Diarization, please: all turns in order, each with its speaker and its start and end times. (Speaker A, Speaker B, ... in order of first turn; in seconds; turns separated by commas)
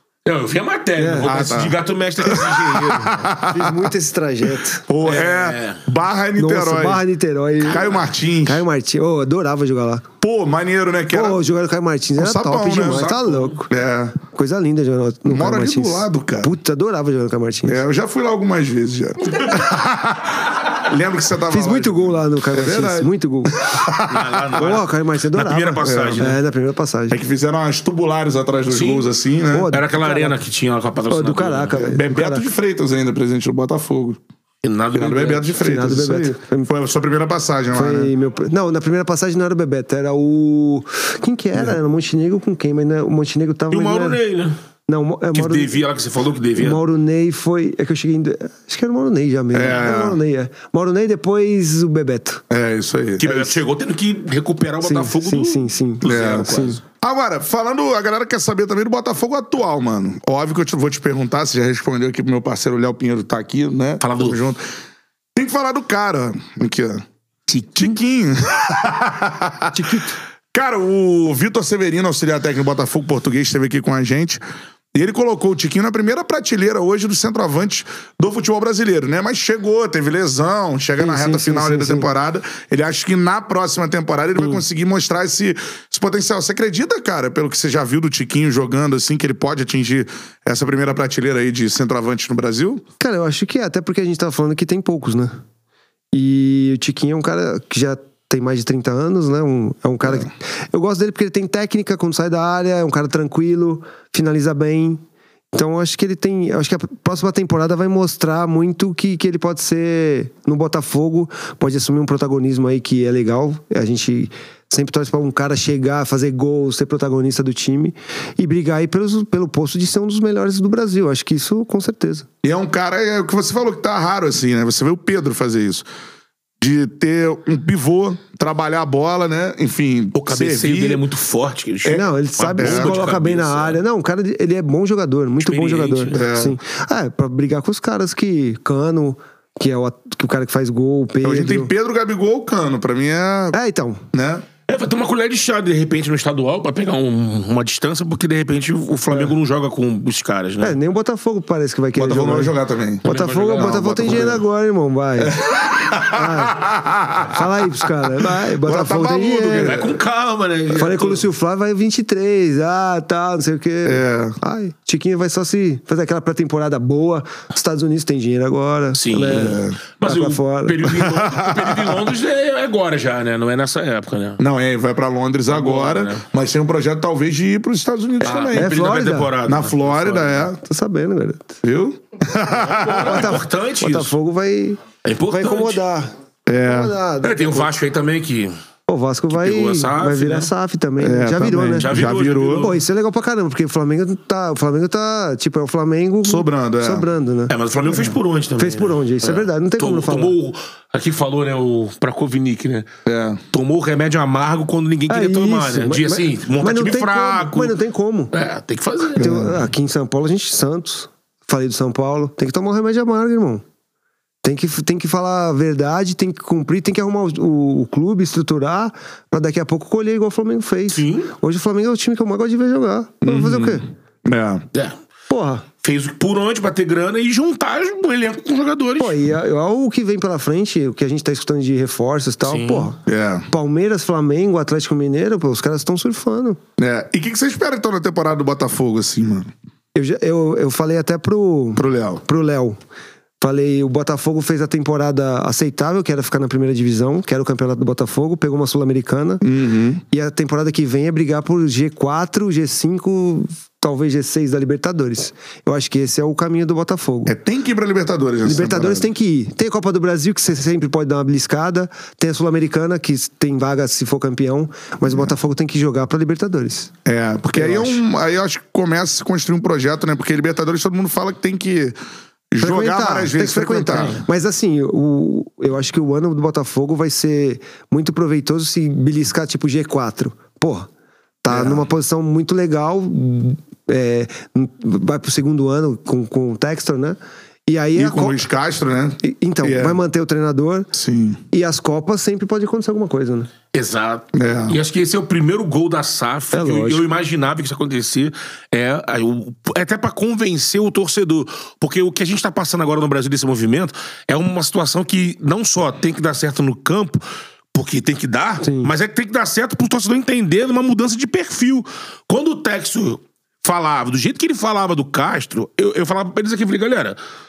Speaker A: 0.2-3.3, Speaker B: 1.0-1.3, Speaker C: 1.2-3.9, Speaker B: 3.5-4.8, Speaker C: 4.9-7.0, Speaker A: 5.0-5.8, Speaker B: 6.3-10.1, Speaker C: 7.6-8.6, Speaker C: 10.2-11.4, Speaker B: 11.1-17.8, Speaker C: 12.2-13.1, Speaker A: 12.8-13.6, Speaker C: 13.7-14.2, Speaker C: 15.3-16.5, Speaker C: 17.6-24.5, Speaker B: 21.5-23.6, Speaker A: 24.1-26.4, Speaker B: 24.5-27.2, Speaker C: 25.8-26.3, Speaker C: 27.1-29.7, Speaker A: 28.7-29.1, Speaker B: 29.5-30.4, Speaker A: 29.7-31.8, Speaker B: 31.1-32.5, Speaker C: 31.7-34.2, Speaker A: 34.6-35.6, Speaker C: 34.9-38.1, Speaker B: 35.6-36.7, Speaker B: 37.7-44.2, Speaker A: 43.7-44.5, Speaker B: 44.9-45.8, Speaker A: 45.3-46.8, Speaker B: 46.5-52.4, Speaker C: 49.5-50.2, Speaker C: 52.5-53.3, Speaker A: 53.2-56.8, Speaker B: 53.2-53.6, Speaker B: 54.8-56.8, Speaker C: 56.0-64.6, Speaker A: 64.0-64.4, Speaker C: 65.3-67.0, Speaker A: 67.5-67.9, Speaker C: 67.6-70.0, Speaker B: 69.7-70.2, Speaker C: 70.5-74.4, Speaker C: 74.9-92.8, Speaker B: 81.0-82.1, Speaker B: 93.0-95.3, Speaker B: 96.1-122.3, Speaker C: 122.4-125.9, Speaker C: 126.6-131.0, Speaker A: 130.1-133.8, Speaker B: 131.8-141.7, Speaker C: 132.6-133.0, Speaker A: 135.4-136.2, Speaker C: 136.1-136.6, Speaker C: 141.2-143.6, Speaker B: 143.5-144.0, Speaker C: 144.1-144.4, Speaker A: 144.7-150.8, Speaker B: 150.6-155.3, Speaker C: 151.9-154.4, Speaker A: 153.0-154.4, Speaker C: 155.2-159.9, Speaker B: 156.1-156.6, Speaker B: 157.2-159.9, Speaker A: 159.5-161.2, Speaker B: 160.7-170.9, Speaker C: 163.8-164.4, Speaker A: 168.9-174.4, Speaker C: 169.3-169.8, Speaker C: 170.8-172.1, Speaker C: 174.4-178.8, Speaker A: 175.5-176.2, Speaker A: 178.2-180.5, Speaker B: 178.5-179.4, Speaker C: 179.4-180.6, Speaker B: 180.6-181.6, Speaker C: 181.6-183.4, Speaker A: 182.5-184.1, Speaker B: 183.0-187.7, Speaker A: 185.0-185.8, Speaker C: 186.5-186.9, Speaker A: 187.2-188.5, Speaker B: 188.9-192.0, Speaker A: 189.3-190.5, Speaker C: 191.0-192.7, Speaker A: 191.7-192.8, Speaker B: 192.6-200.3, Speaker C: 196.2-197.1, Speaker A: 197.5-202.9, Speaker C: 203.1-203.4, Speaker A: 203.5-207.8, Speaker B: 205.1-208.3, Speaker A: 208.3-209.6, Speaker B: 209.1-213.6, Speaker B: 214.4-223.8, Speaker A: 220.9-221.3, Speaker C: 223.2-224.6, Speaker B: 225.3-225.6, Speaker A: 225.8-229.2, Speaker B: 229.0-236.6, Speaker A: 232.4-232.9, Speaker C: 233.1-233.5, Speaker C: 236.8-239.5, Speaker B: 239.9-242.8, Speaker C: 241.8-242.2, Speaker B: 243.4-249.4, Speaker C: 249.4-250.0, Speaker B: 250.1-257.3, Speaker C: 257.2-259.1, Speaker B: 258.4-266.9, Speaker C: 267.1-271.9, Speaker B: 267.5-268.0, Speaker C: 272.5-274.2, Speaker B: 272.6-280.9, Speaker B: 281.4-288.4, Speaker C: 281.5-281.9, Speaker C: 287.9-290.0, Speaker B: 289.2-290.9, Speaker C: 290.9-291.4, Speaker B: 291.5-293.5, Speaker A: 293.7-317.2, Speaker C: 294.3-294.8, Speaker B: 296.5-297.1, Speaker B: 308.6-308.9